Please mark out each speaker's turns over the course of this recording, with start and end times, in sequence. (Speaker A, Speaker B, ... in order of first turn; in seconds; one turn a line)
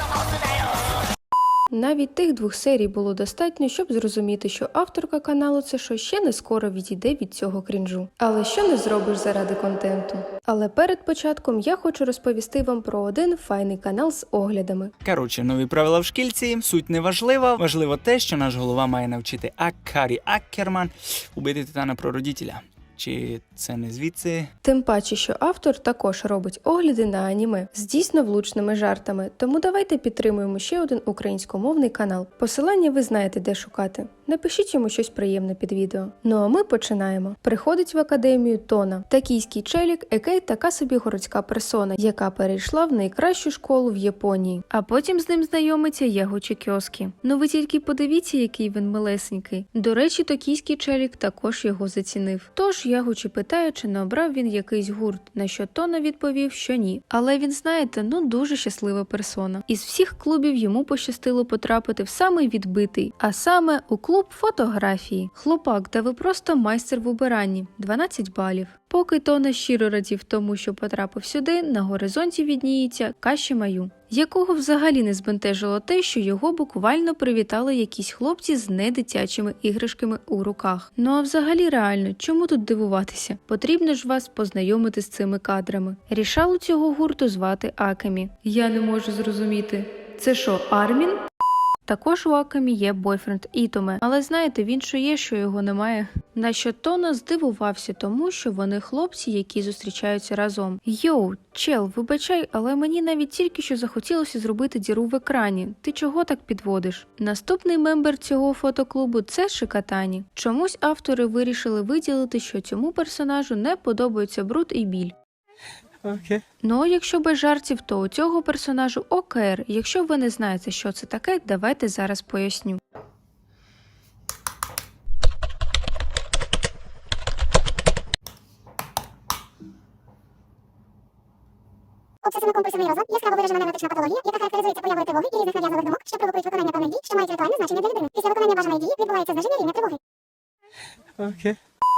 Speaker A: 1.7-14.9
Speaker B: 15.0-24.5
Speaker A: 24.6-91.3
Speaker A: 91.8-115.2
Speaker B: 116.0-116.4
Speaker A: 116.6-122.8
Speaker C: 132.2-140.0
Speaker B: 141.2-141.5